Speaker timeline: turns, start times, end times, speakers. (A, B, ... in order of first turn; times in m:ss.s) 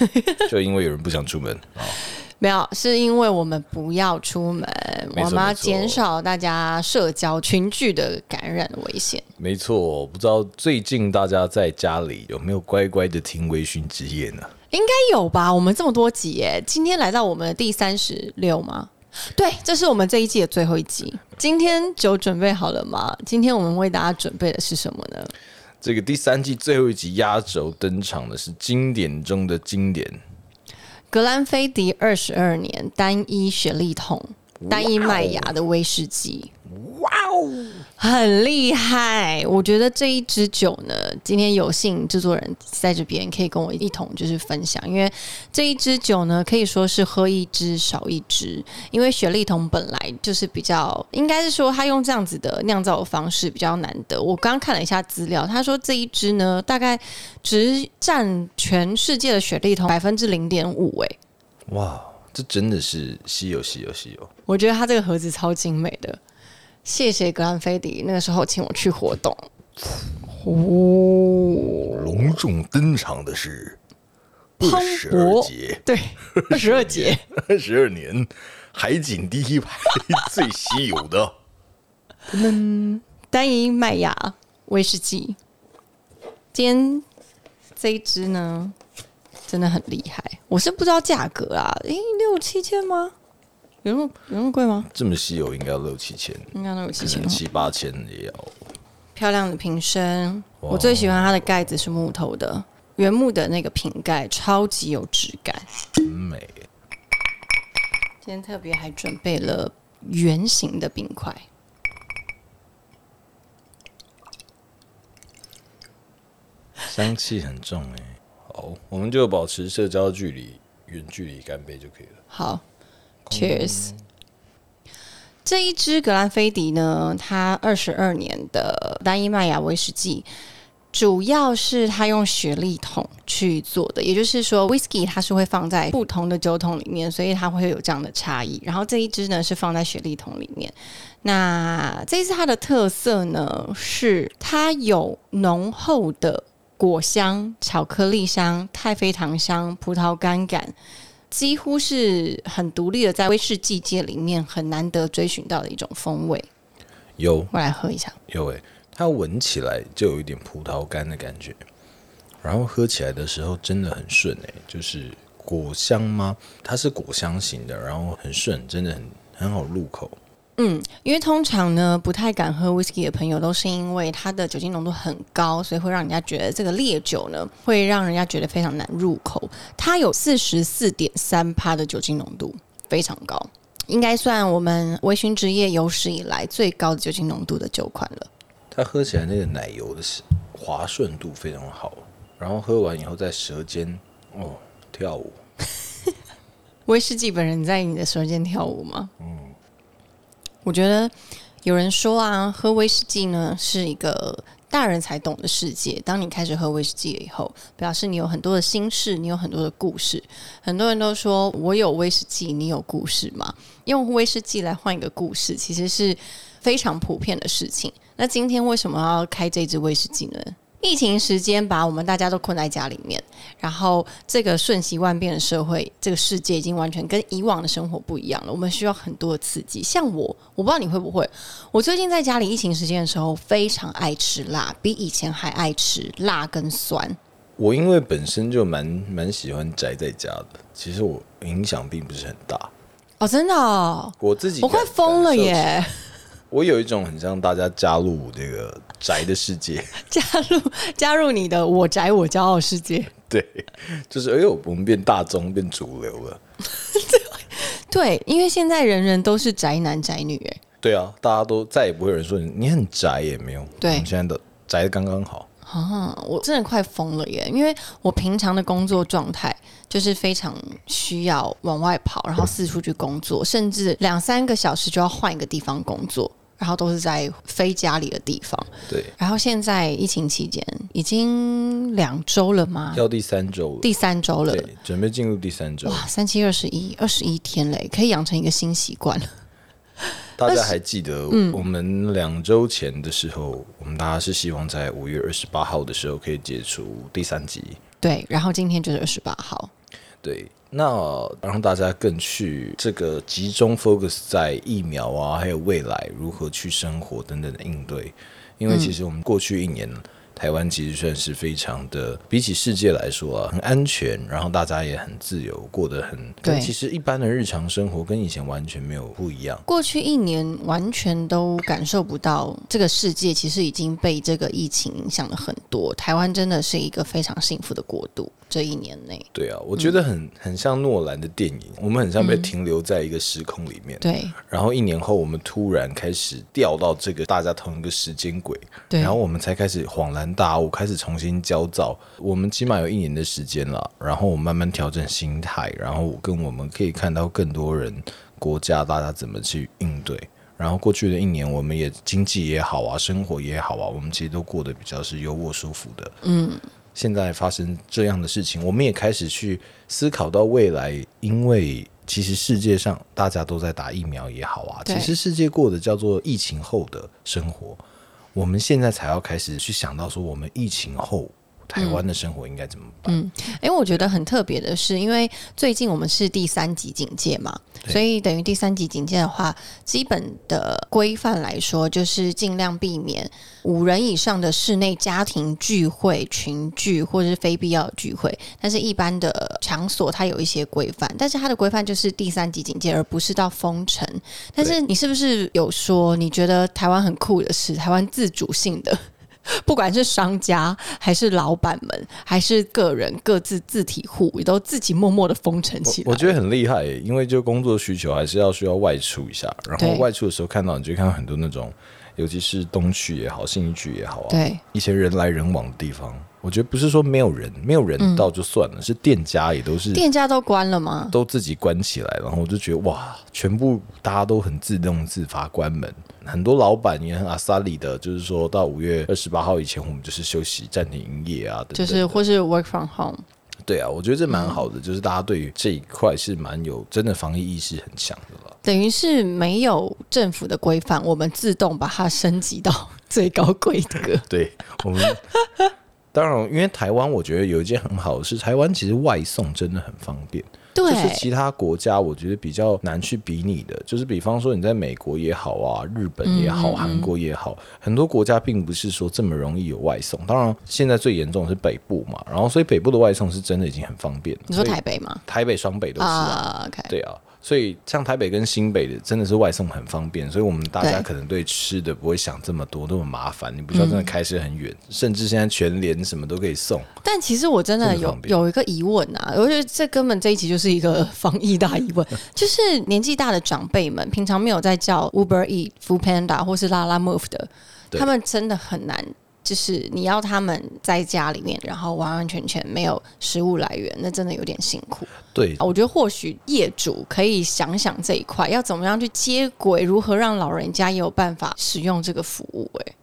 0:00.4-0:02.0 A
0:02.4-0:09.3 B
0:05.2-0:06.0 A
0:09.4-0:14.5 A
0:14.7-0:25.3 B
0:25.8-0:30.2 A
0:31.1-0:36.5 B
0:34.6-0:35.6 A
0:36.7-0:37.8 A
0:38.0-1:01.2 B
1:01.7-1:04.3 A
1:04.5-1:06.2 B
1:06.8-1:09.5 B
1:10.2-1:12.3 B
1:11.8-1:13.8 A
1:14.6-1:21.3 A
1:14.6-1:17.2 B
1:22.3-1:23.0 A
1:23.3-1:25.4 B
1:26.5-1:27.1 B
1:27.8-1:28.8 B
1:29.5-1:33.1 B
1:33.8-1:34.9 B
1:34.9-1:38.6 A
1:36.5-1:37.4 B
1:39.2-1:45.7 B
1:40.6-1:41.5 A
1:46.0-1:46.6 A
1:48.2-1:51.5 B
1:56.9-2:02.2 A
2:02.3-2:02.6 B
2:03.3-2:04.0 A
2:03.3-2:03.9 B
2:05.4-2:10.3 B
2:10.9-2:30.8 B
2:31.3-2:36.5 B
2:37.2-2:37.5 A
2:37.5-2:38.2 B
2:38.3-2:41.6 A
2:42.4-2:50.2 A
2:50.6-3:08.3 B
3:08.7-3:15.4 A
3:16.9-3:19.1 B
3:19.2-3:19.5 A
3:20.6-3:57.2 B
3:57.6-4:02.7 A
4:03.2-4:06.0 B
4:04.2-4:05.8 A
4:06.5-4:10.0 A
4:10.1-4:13.1 B
4:13.2-4:16.4 A
4:16.9-4:20.6 B
4:20.8-4:25.5 A
4:23.8-4:24.1 B
4:25.7-4:43.0 B
4:38.9-4:39.1 A
4:42.9-4:43.9 A
4:43.8-4:44.7 B
4:44.5-4:46.1 A
4:45.8-4:49.3 B
4:50.4-4:57.8 A
4:50.5-4:50.7 B
4:51.3-4:51.6 B
4:58.0-4:59.7 B
5:00.2-5:19.6 A
5:08.7-5:08.9 B
5:16.4-5:16.7 B
5:19.7-5:29.9 B
5:29.3-5:56.2 A
5:32.2-5:32.5 B
5:34.0-5:34.4 B
5:38.9-5:39.2 B
5:56.2-5:56.6 B
5:57.0-6:07.8 A
6:04.9-6:05.1 B
6:08.4-6:13.2 A
6:11.8-6:12.0 B
6:13.1-6:39.0 B
6:39.5-6:46.4 B
6:45.8-7:00.0 A
6:49.8-6:50.0 B
6:54.3-6:54.6 B
6:58.0-6:58.3 B
6:59.9-7:01.2 B
7:01.1-7:12.2 A
7:11.8-7:13.2 B
7:13.7-7:18.6 A
7:14.3-7:14.6 B
7:18.6-7:24.3 B
7:24.3-7:25.2 A
7:25.4-7:25.7 B
7:26.1-7:56.9 A
7:30.8-7:31.3 B
7:36.2-7:37.1 B
7:44.5-7:45.2 B
7:46.0-7:46.9 B
7:50.8-7:51.1 B
7:53.7-7:54.1 B
7:57.0-8:22.9 B
7:57.8-7:58.4 A
8:15.3-8:15.6 A